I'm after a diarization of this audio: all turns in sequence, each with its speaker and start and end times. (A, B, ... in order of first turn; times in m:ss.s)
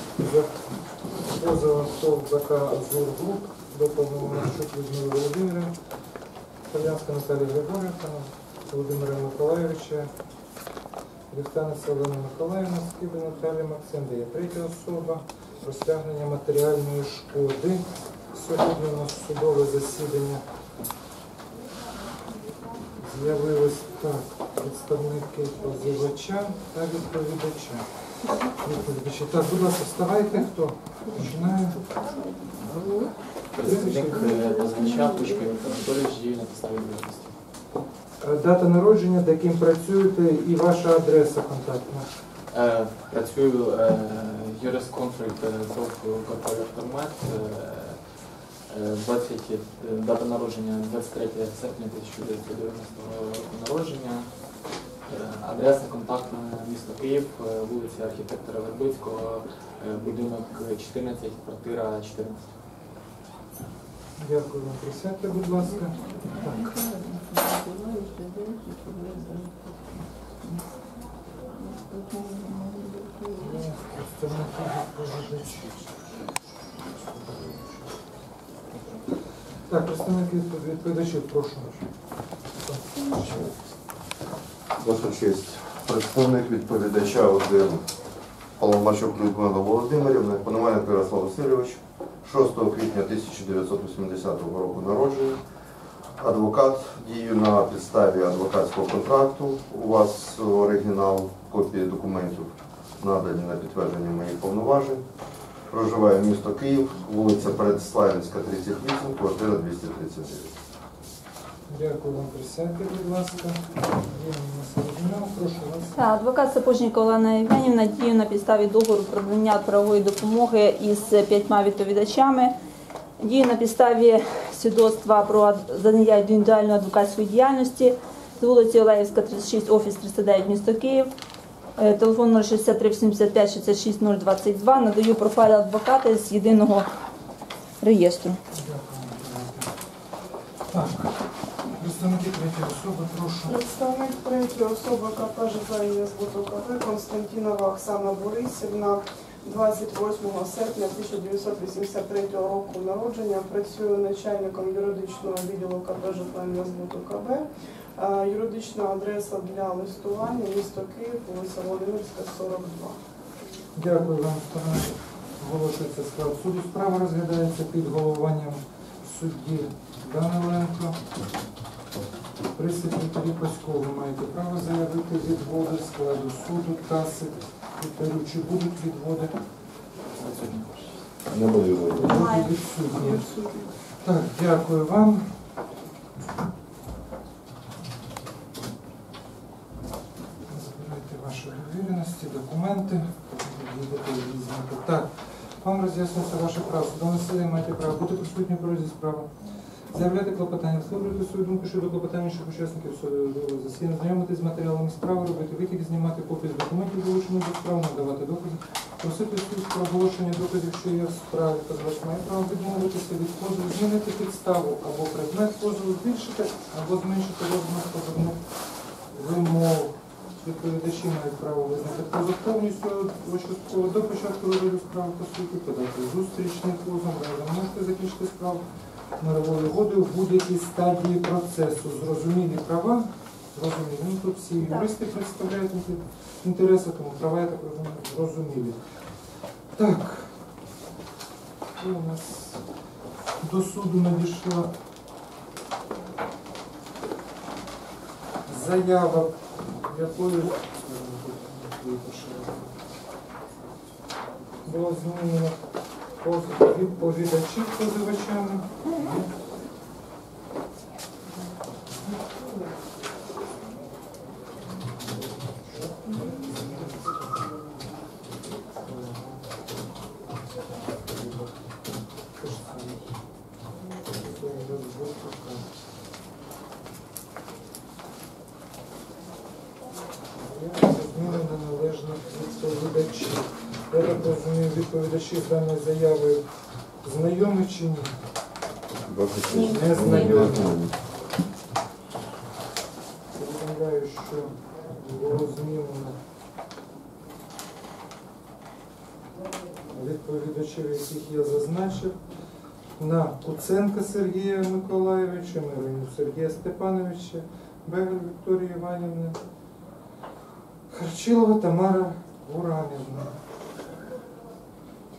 0:00.1-0:00.5 A
0:01.2-0:05.7 A
0:06.7-0:10.1 A
0:11.3-0:20.4 A
0:23.0-0:27.8 A
0:28.4-0:31.9 A
0:32.8-0:37.4 B
0:33.6-0:34.3 A
0:38.2-0:42.1 A
0:42.5-1:02.5 B
1:04.2-1:06.6 A
1:06.3-1:10.6 C
1:11.6-1:13.6 C
1:13.4-1:15.8 A
1:19.6-1:21.8 A
1:23.2-1:23.6 D
1:24.8-1:27.8 D
1:28.6-1:35.4 D
1:36.2-1:45.0 D
1:45.7-1:50.5 D
1:51.7-1:56.0 A
1:56.0-2:02.5 C
2:03.2-2:11.1 C
2:11.8-2:16.9 C
2:17.8-2:18.4 C
2:18.5-2:19.7 A
2:20.7-2:23.6 A
2:23.5-2:37.4 E
2:38.0-2:43.0 E
2:43.7-2:51.0 A
2:52.5-2:59.3 A
3:00.2-3:01.1 B
3:01.3-3:02.1 D
3:01.9-3:03.3 A
3:02.2-3:02.4 C
3:03.0-3:03.7 E
3:04.0-3:05.3 A
3:10.5-3:19.3 A
3:19.9-3:38.4 A
3:39.1-3:48.6 A
3:49.2-3:58.8 A
3:59.7-4:00.3 A
4:01.7-4:02.6 A
4:03.4-4:04.7 A
4:08.4-4:12.7 A
4:14.6-4:15.6 A
4:16.2-4:19.3 A
4:25.4-4:27.2 A
4:28.7-4:29.4 A
4:32.3-4:33.1 A
4:34.1-4:35.7 A
4:40.4-4:46.4 A
4:47.0-4:48.1 A
4:49.0-4:50.9 D
4:49.5-4:50.2 C
4:49.5-4:50.8 A
4:53.3-4:56.2 A
4:59.9-5:02.2 A
5:03.0-5:09.4 A
5:10.9-5:13.3 A